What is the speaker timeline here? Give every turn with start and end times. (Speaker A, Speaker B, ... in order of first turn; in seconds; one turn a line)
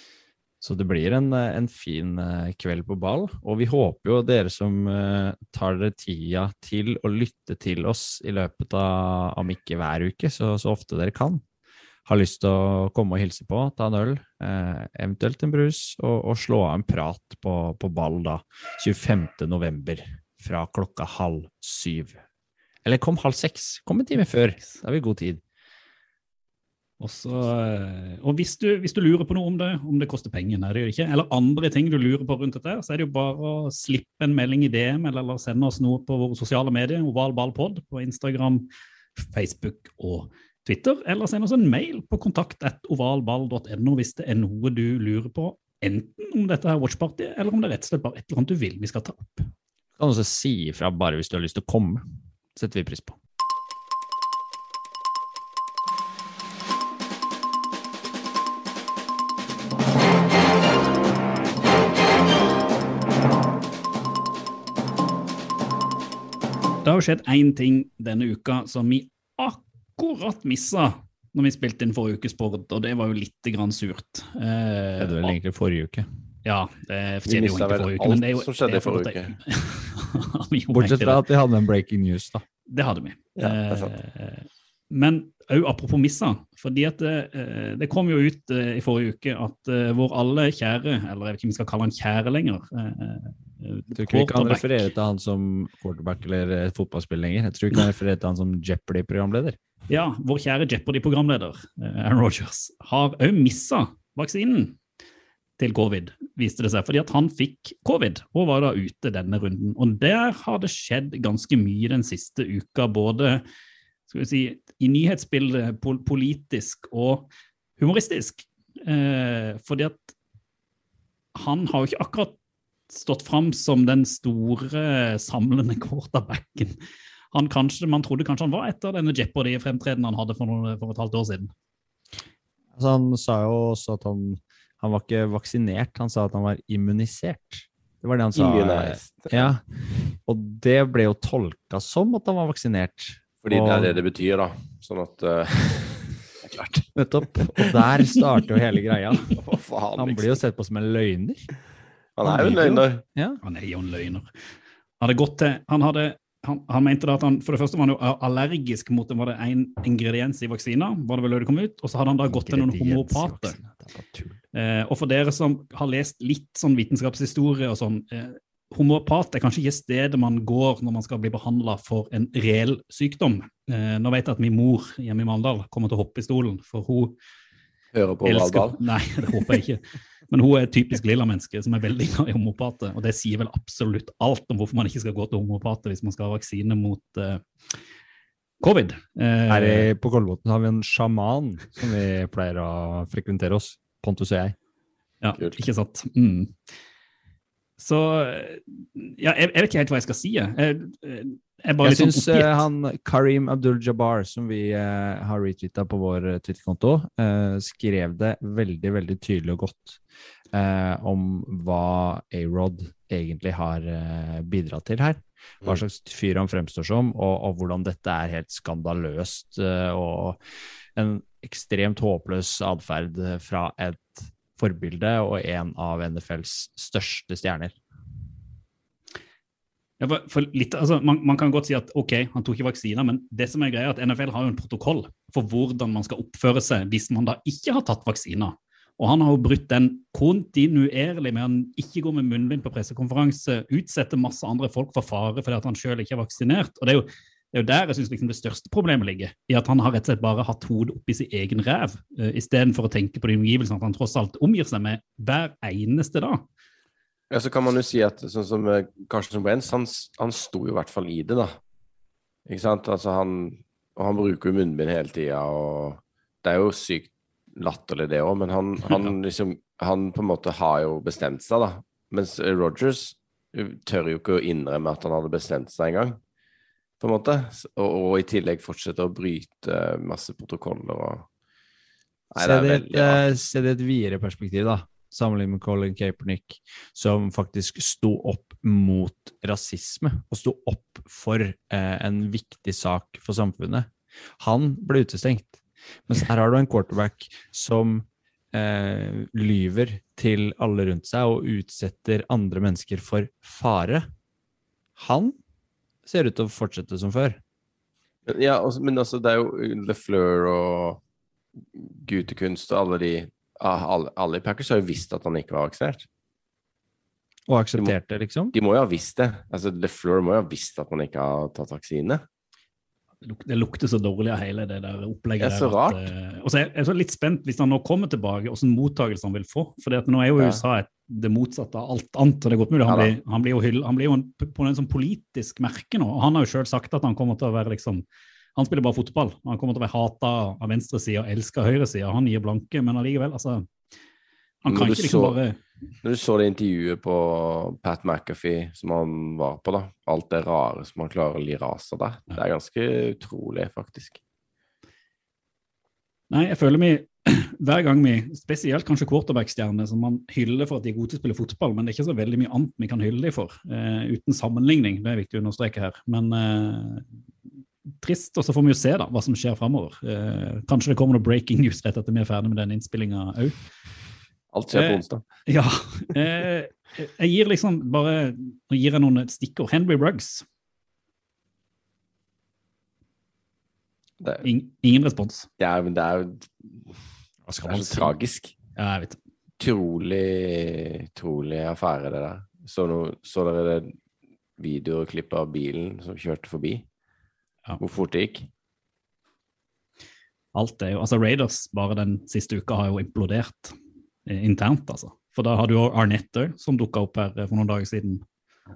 Speaker A: 0.6-11.4
Speaker A: 12.1-22.2
Speaker A: 22.9-25.4
Speaker B: 27.0-49.5
Speaker A: 50.0-52.0
Speaker A: 52.5-53.2
Speaker B: 66.8-75.3
Speaker A: 75.0-76.1
Speaker B: 76.5-81.2
Speaker C: 77.3-79.3
Speaker A: 80.7-82.4
Speaker B: 82.7-94.8
Speaker C: 83.4-84.0
Speaker A: 94.0-99.6
Speaker B: 99.9-104.8
Speaker B: 105.6-113.4
Speaker B: 114.1-120.1
Speaker B: 121.4-122.3
Speaker B: 122.9-126.8
Speaker B: 127.3-131.5
Speaker A: 132.8-143.9
Speaker C: 138.3-139.6
Speaker C: 143.4-146.9
Speaker A: 147.0-149.4
Speaker C: 149.3-150.4
Speaker A: 150.0-151.5
Speaker C: 152.2-153.0
Speaker A: 152.2-153.4
Speaker B: 153.4-154.3
Speaker B: 155.0-163.6
Speaker A: 162.3-164.4
Speaker B: 164.5-177.2
Speaker C: 177.9-178.8
Speaker B: 178.2-187.8
Speaker B: 188.6-189.9
Speaker A: 189.5-194.6
Speaker B: 195.2-196.6
Speaker B: 197.8-202.7
Speaker A: 201.8-210.0
Speaker A: 210.5-220.4
Speaker A: 221.0-227.8
Speaker B: 230.0-256.4
Speaker C: 257.3-261.6
Speaker C: 262.5-276.2
Speaker C: 277.0-281.3
Speaker A: 282.3-304.1
Speaker C: 282.4-283.3
Speaker A: 305.0-305.4
Speaker A: 306.1-307.4
Speaker C: 308.3-311.0
Speaker C: 311.8-316.1
Speaker A: 317.5-318.6
Speaker C: 318.5-322.2
Speaker B: 323.2-338.1
Speaker C: 325.4-326.1
Speaker C: 330.4-330.6
Speaker C: 332.9-333.1
Speaker B: 338.6-343.7
Speaker B: 344.6-345.6
Speaker C: 344.7-345.4
Speaker C: 346.0-354.2
Speaker B: 356.3-367.1
Speaker B: 368.0-373.6
Speaker C: 374.5-375.2
Speaker B: 374.7-380.4
Speaker B: 384.4-385.5
Speaker C: 385.6-386.9
Speaker A: 387.5-388.1
Speaker C: 387.7-388.5
Speaker B: 388.8-389.2
Speaker C: 389.6-393.9
Speaker C: 394.6-396.9
Speaker C: 397.8-398.5
Speaker B: 400.6-403.8
Speaker B: 404.3-408.2